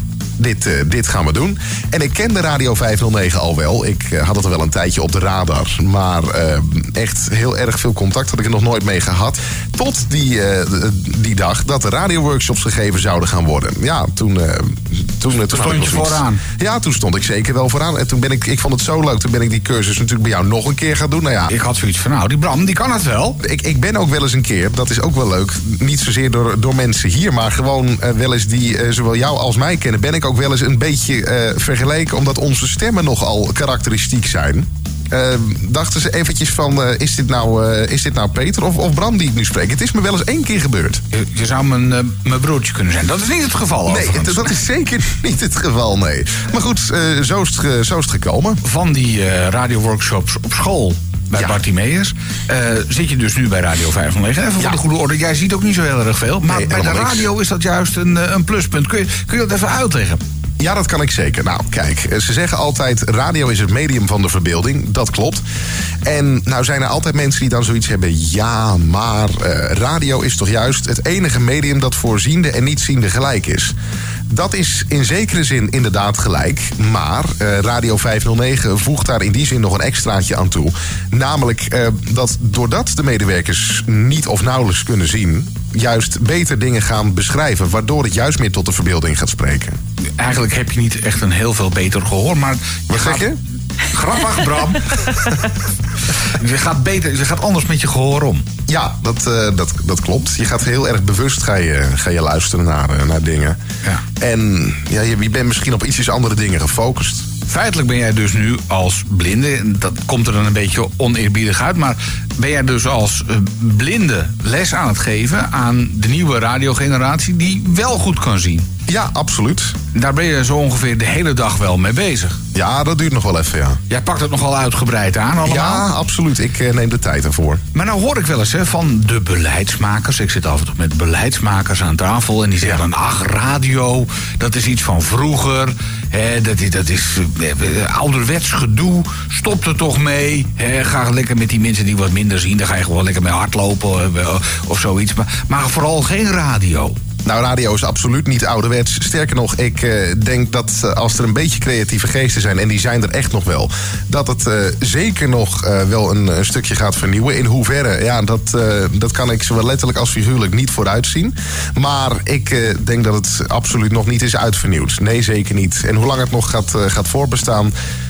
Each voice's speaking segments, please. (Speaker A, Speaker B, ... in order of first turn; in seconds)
Speaker A: 0.4-21.6, 23.4-41.0, 43.9-48.6, 51.4-51.6, 54.6-54.8, 56.5-57.3, 60.6-65.4, 66.0-73.7, 74.3-89.8, 92.9-93.4, 98.7-103.6, 104.2-107.3, 118.9-119.8, 122.5-123.8, 125.4-127.6, 132.6-132.9, 147.2-167.7
Speaker B: 15.5-16.4, 21.5-23.4, 41.1-44.5, 48.6-60.2, 90.2-93.3, 93.9-95.4, 96.2-98.5, 107.5-118.7, 119.9-122.4, 123.9-125.9, 127.7-147.0